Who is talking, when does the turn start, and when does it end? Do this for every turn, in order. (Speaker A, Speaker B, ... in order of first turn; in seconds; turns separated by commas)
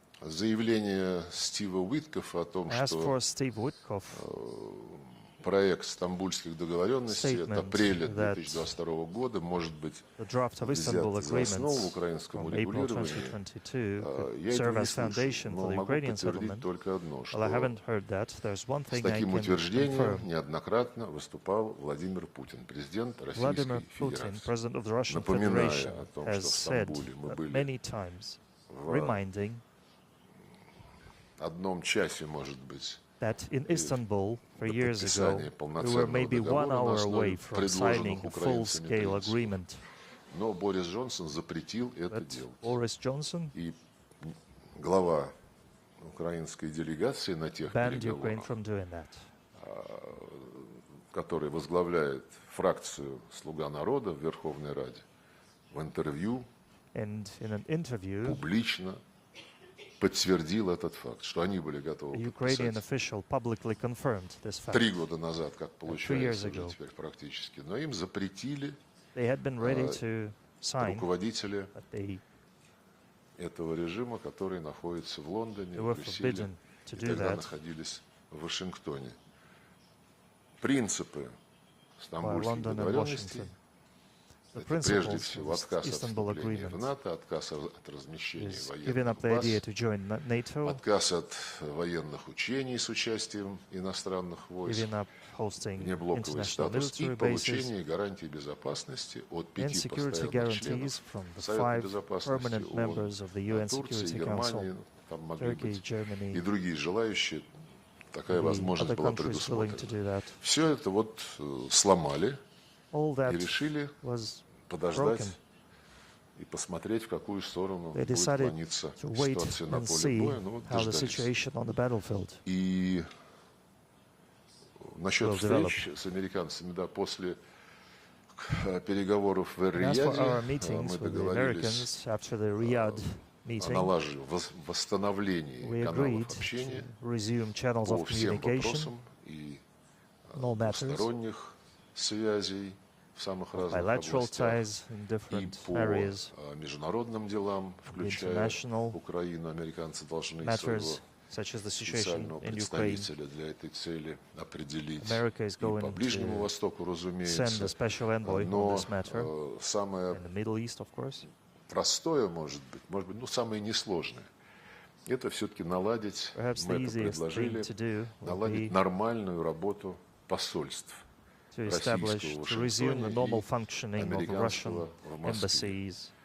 Speaker A: 0.2-3.2, Speaker B: 2.7-4.3, Speaker A: 4.1-13.4, Speaker B: 7.1-8.8, Speaker B: 10.2-16.7, Speaker A: 14.0-17.8, Speaker B: 17.3-20.3, Speaker A: 18.9-24.5, Speaker B: 23.3-29.6, Speaker A: 25.1-27.7, Speaker A: 28.7-29.2, Speaker A: 31.4-33.0, Speaker B: 33.2-39.8, Speaker A: 33.7-34.0, Speaker A: 34.6-39.6, Speaker A: 40.3-42.8, Speaker B: 42.1-43.5, Speaker A: 43.5-45.3, Speaker A: 46.0-48.5, Speaker B: 47.7-49.3, Speaker A: 49.5-55.0, Speaker A: 55.7-56.5, Speaker B: 56.9-58.4, Speaker A: 58.2-59.0, Speaker A: 60.0-62.8, Speaker B: 62.1-64.9, Speaker A: 64.7-68.8, Speaker B: 65.9-66.8, Speaker B: 69.1-71.1, Speaker A: 69.6-70.0, Speaker A: 70.8-71.7, Speaker B: 71.7-72.2, Speaker A: 73.4-79.2, Speaker B: 75.7-77.5, Speaker A: 80.6-81.3, Speaker A: 82.0-83.5, Speaker B: 82.2-83.5, Speaker B: 84.5-86.9, Speaker A: 84.5-89.6, Speaker B: 88.4-90.8, Speaker A: 90.6-94.9, Speaker B: 94.6-97.7, Speaker A: 95.7-107.4, Speaker B: 99.6-104.7, Speaker B: 105.4-106.4, Speaker A: 108.1-112.4, Speaker B: 108.3-110.4, Speaker B: 112.9-115.3, Speaker A: 113.2-114.0, Speaker A: 114.7-115.3, Speaker A: 116.4-121.3, Speaker B: 117.9-122.4, Speaker A: 122.4-123.1, Speaker A: 124.8-127.4, Speaker B: 125.2-125.9, Speaker A: 128.3-131.9, Speaker B: 129.7-133.9, Speaker A: 132.6-136.9, Speaker B: 135.6-138.9, Speaker A: 137.8-139.6, Speaker A: 140.3-144.7, Speaker B: 140.3-141.1, Speaker B: 143.6-146.3, Speaker A: 145.3-151.0, Speaker B: 147.9-149.0, Speaker B: 150.4-153.1, Speaker A: 151.8-160.2, Speaker B: 155.0-156.5, Speaker B: 157.2-159.3, Speaker B: 160.1-161.3, Speaker A: 161.7-164.3, Speaker A: 165.1-171.0, Speaker B: 166.3-168.7, Speaker B: 171.5-176.1, Speaker A: 171.7-175.8